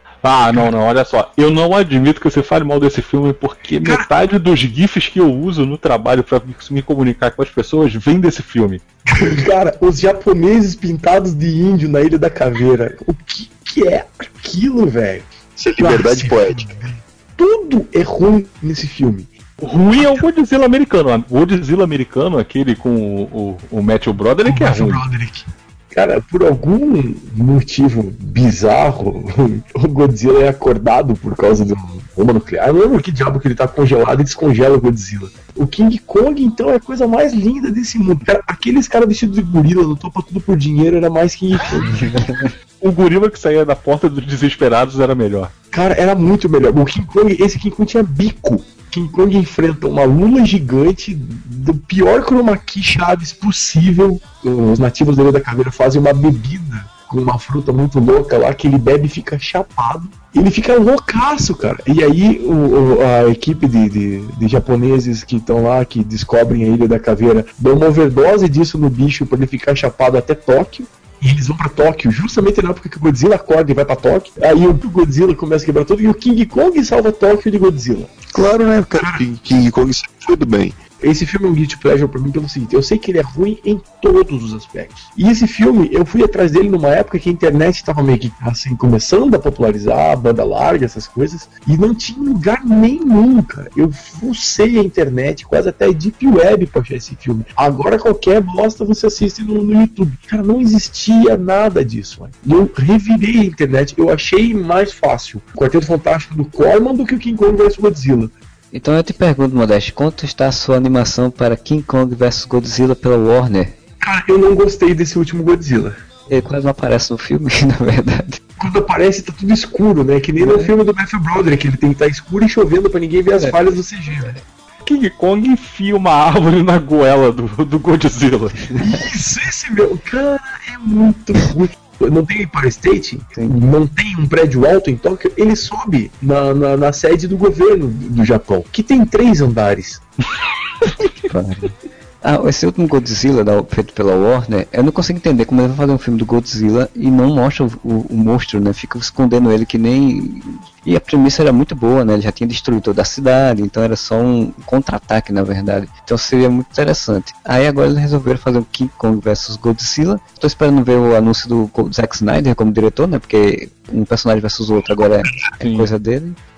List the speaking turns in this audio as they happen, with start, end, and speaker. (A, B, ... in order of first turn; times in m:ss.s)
0:00.2-0:08.8 A
0:03.8-0:04.1 B
0:09.1-0:15.3 B
0:15.6-0:17.0 C
0:15.8-0:19.3 B
0:19.6-0:25.0 A
0:20.0-0:20.2 B
0:24.4-0:42.2 B
0:41.9-0:42.4 D
0:42.8-0:45.5 A
0:45.7-1:18.2 B
1:18.3-1:20.8 C
1:19.0-1:19.3 B
1:21.0-1:48.3 B
1:48.7-1:53.8 D
1:54.0-1:56.0 B
1:56.3-1:58.4 D
1:58.6-2:04.4 B
2:00.4-2:00.7 D
2:04.8-2:08.8 A
2:08.8-2:20.0 B
2:21.2-2:46.4 D
2:45.6-2:45.9 A